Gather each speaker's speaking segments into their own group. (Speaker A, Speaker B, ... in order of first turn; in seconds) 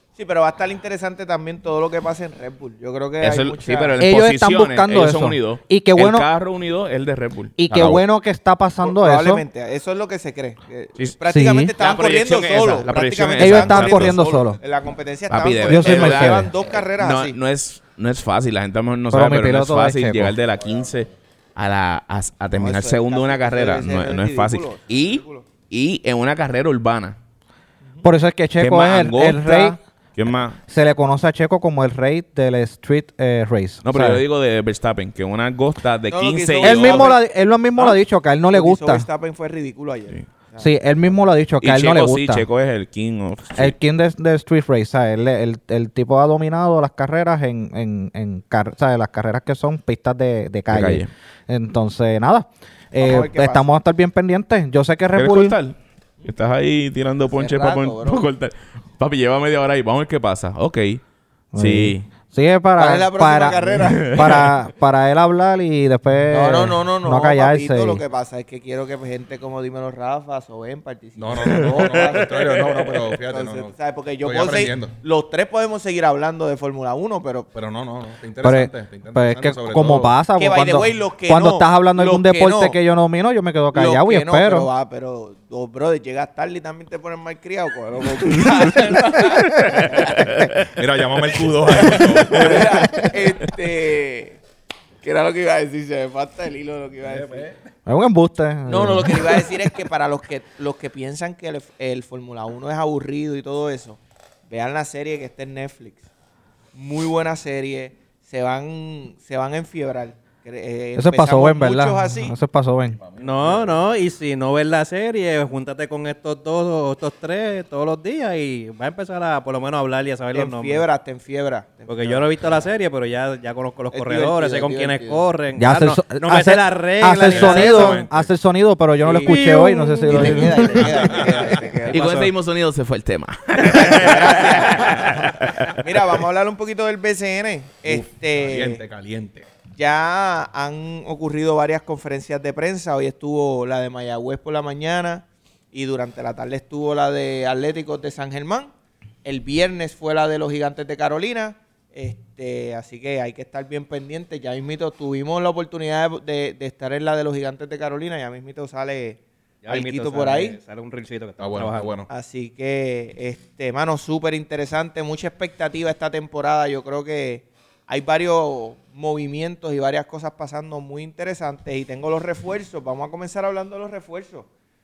Speaker A: 0.2-3.9, 8.8-17.4, 22.5-25.4, 36.1-37.2, 38.5-40.8, 53.0-53.7, 57.2-58.2, 62.8-64.5, 66.3-77.5, 80.4-82.8, 83.7-90.4, 91.7-94.4, 95.0-97.5, 98.7-106.1, 106.7-112.3, 120.3-122.4, 123.9-125.2, 127.1-128.0, 129.1-129.3, 130.1-132.1, 133.6-138.8, 139.8-148.7, 149.2-160.6, 162.1-174.5
Speaker B: 3.2-8.0, 11.8-14.4, 15.3-27.2, 28.6-30.6, 33.8-37.1, 41.6-43.7, 50.7-51.1, 55.1-61.0, 61.6-62.1, 63.9-64.5, 90.1-90.5, 131.9-135.8
Speaker C: 4.0-6.3, 7.6-9.4, 11.3-11.7, 13.4-14.6, 15.7-16.5, 19.1-20.4, 28.0-29.8, 30.7-34.2, 36.6-39.1, 40.6-42.5, 43.6-55.6, 61.5-68.0, 78.4-84.7, 97.9-99.7, 111.0-113.0, 125.6-131.2
Speaker D: 71.2-75.0, 77.5-80.2, 90.7-92.8, 97.1-97.5, 113.0-113.8, 127.8-128.3, 131.1-131.6, 137.9-139.5, 161.4-162.1
Speaker E: 113.2-120.9, 121.9-128.1, 129.0-132.3, 133.8-134.9, 159.6-161.9